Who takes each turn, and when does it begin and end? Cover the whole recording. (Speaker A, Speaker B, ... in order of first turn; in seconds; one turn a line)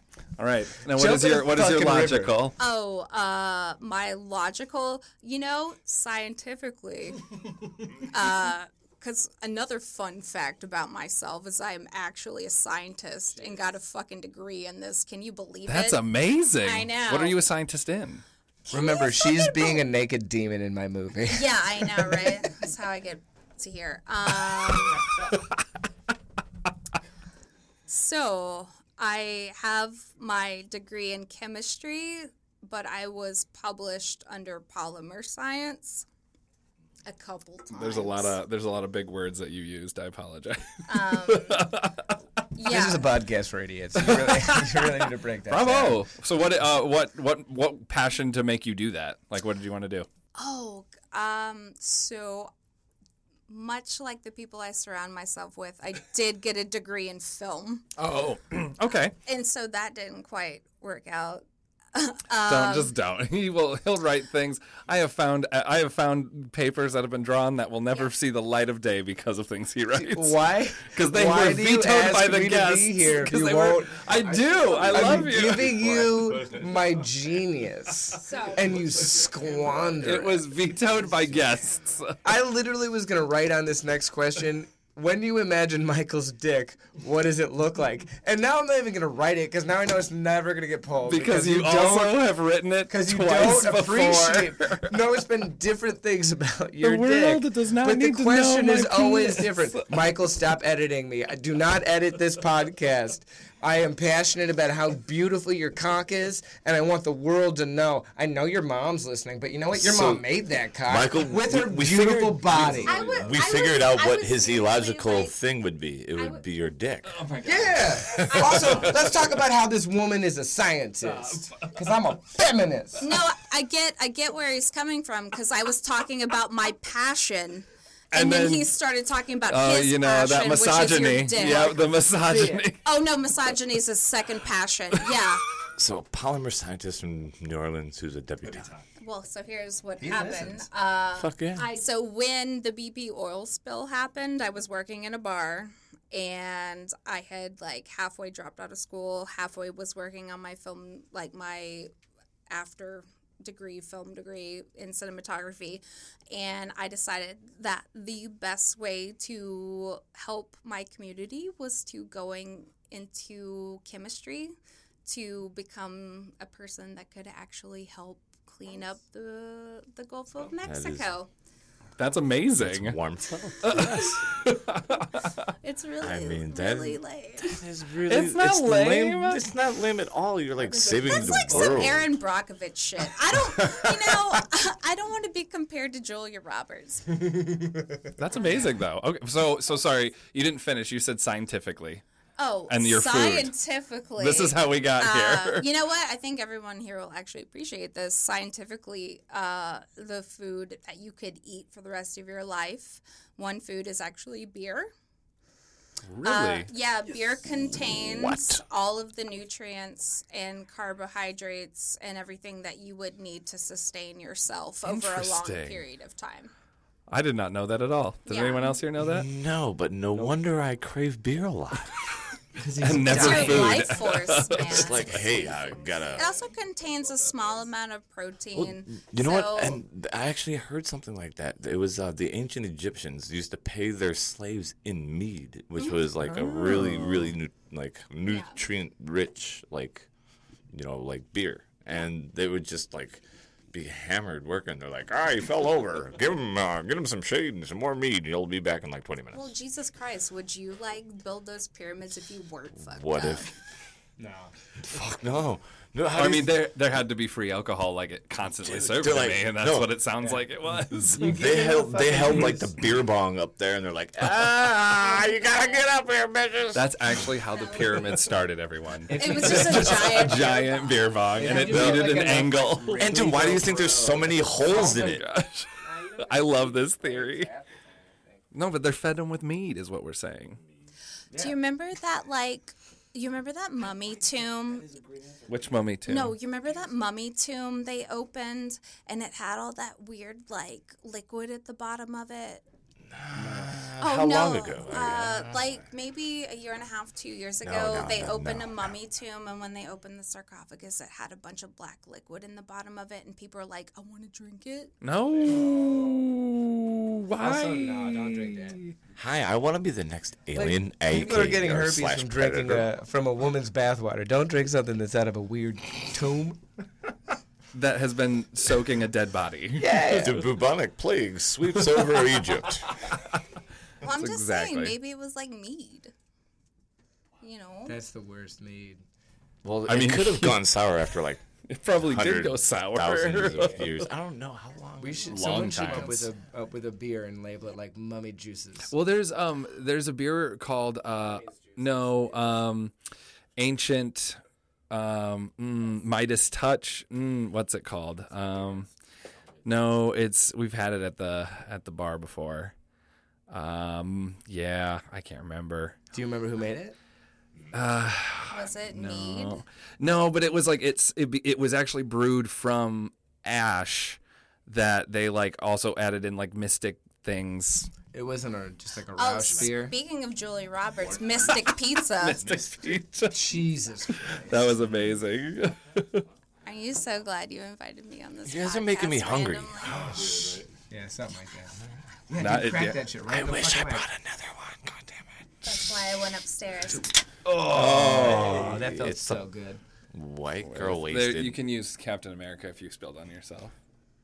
Speaker A: 0.4-2.5
Speaker B: 0.9-2.4
Speaker C: 2.6-7.3
Speaker C: 7.9-16.0
Speaker A: 15.7-18.2
Speaker C: 16.6-17.4
Speaker B: 18.7-22.4
Speaker C: 18.7-19.8
Speaker C: 21.3-25.1
Speaker C: 27.9-36.0
Speaker C: 37.0-38.4
Speaker A: 37.7-42.2
Speaker C: 40.9-41.7
Speaker C: 42.5-43.1
Speaker B: 42.6-46.0
Speaker A: 44.0-50.1
Speaker C: 50.4-52.5
Speaker C: 53.5-57.8
Speaker A: 58.0-59.1
Speaker C: 59.2-62.9
Speaker A: 62.5-75.7
Speaker B: 69.9-80.5
Speaker D: 74.9-77.1
Speaker C: 78.1-78.7
Speaker D: 78.8-79.8
Speaker A: 80.0-82.2
Speaker B: 82.2-92.3
Speaker A: 91.0-95.0
Speaker B: 92.9-113.2
Speaker A: 96.8-99.9
Speaker D: 109.7-110.2
Speaker D: 110.8-117.2
Speaker A: 112.5-113.4
Speaker C: 112.8-115.3
Speaker C: 116.2-116.4
Speaker A: 117.0-119.2
Speaker B: 117.4-123.0
Speaker D: 117.7-118.9
Speaker C: 118.3-118.8
Speaker A: 121.0-121.8
Speaker C: 123.0-131.9
Speaker A: 128.1-128.7
Speaker A: 129.5-132.8
Speaker B: 132.2-132.7
Speaker C: 132.8-135.4
Speaker D: 135.8-138.8
Speaker C: 139.0-151.9
Speaker B: 140.0-140.7
Speaker D: 141.1-141.7
Speaker C: 152.5-164.5
Speaker C: 165.0-171.3
Speaker D: 170.6-171.1
Speaker A: 172.0-172.9
Speaker D: 172.6-174.2
Speaker A: 173.6-175.3
Speaker C: 175.6-177.6
Speaker D: 176.0-182.1
Speaker A: 178.1-179.4
Speaker B: 180.6-181.9
Speaker C: 181.1-187.1
Speaker B: 187.2-188.6
Speaker A: 188.2-192.0
Speaker C: 188.3-188.7
Speaker C: 192.4-204.9
Speaker A: 192.7-193.5
Speaker A: 194.2-195.7
Speaker A: 206.1-206.7
Speaker C: 206.2-216.5
Speaker D: 207.8-208.6
Speaker A: 214.8-215.8
Speaker A: 217.1-219.3
Speaker C: 218.2-218.8
Speaker D: 219.0-222.0
Speaker B: 222.6-223.9
Speaker A: 222.8-225.1
Speaker C: 223.1-229.8
Speaker D: 224.5-226.3
Speaker D: 228.5-240.1
Speaker A: 236.2-237.3
Speaker C: 238.3-238.6
Speaker D: 240.7-249.4
Speaker C: 249.3-253.5
Speaker D: 252.8-253.5
Speaker B: 254.2-254.5
Speaker D: 254.8-256.5
Speaker A: 256.1-261.4
Speaker D: 258.6-259.9
Speaker D: 261.1-267.3
Speaker B: 261.1-262.8
Speaker C: 265.1-265.8
Speaker A: 266.7-273.7
Speaker C: 267.5-268.2
Speaker B: 269.1-270.6
Speaker C: 269.1-271.8
Speaker B: 271.3-275.2
Speaker D: 271.6-272.3
Speaker D: 273.0-275.2
Speaker A: 274.6-277.5
Speaker B: 275.8-278.4
Speaker A: 278.5-280.6
Speaker C: 281.4-284.9
Speaker B: 284.8-285.7
Speaker A: 285.5-286.4
Speaker C: 286.1-292.6
Speaker D: 293.1-295.8
Speaker B: 293.4-293.7
Speaker C: 294.0-304.9
Speaker D: 297.6-298.9
Speaker A: 305.0-308.9
Speaker B: 307.4-308.8
Speaker D: 309.1-312.9
Speaker B: 310.5-316.6
Speaker A: 317.7-320.1
Speaker B: 319.8-320.5
Speaker D: 320.1-323.0
Speaker A: 323.0-323.3
Speaker C: 324.0-326.1
Speaker A: 324.0-324.9
Speaker C: 327.4-328.0
Speaker B: 327.9-329.0
Speaker D: 329.6-331.4
Speaker A: 329.9-330.6
Speaker A: 331.7-334.0
Speaker D: 332.0-336.2
Speaker B: 335.0-338.9
Speaker A: 335.3-336.3
Speaker A: 338.9-342.9
Speaker B: 341.3-342.3
Speaker A: 343.6-348.9
Speaker A: 349.6-352.7
Speaker A: 353.5-355.9
Speaker B: 356.1-356.9
Speaker A: 357.7-367.9
Speaker C: 358.5-359.6
Speaker B: 368.1-369.9
Speaker C: 369.1-372.4
Speaker A: 372.2-373.5
Speaker B: 373.3-374.8
Speaker A: 374.1-376.2
Speaker C: 376.6-380.2
Speaker D: 378.4-380.7
Speaker B: 380.0-384.0
Speaker A: 382.3-383.0
Speaker D: 383.2-386.0
Speaker C: 385.6-387.1
Speaker B: 387.6-389.8
Speaker A: 387.6-388.6
Speaker D: 387.7-389.4
Speaker D: 390.1-391.6
Speaker A: 390.6-393.7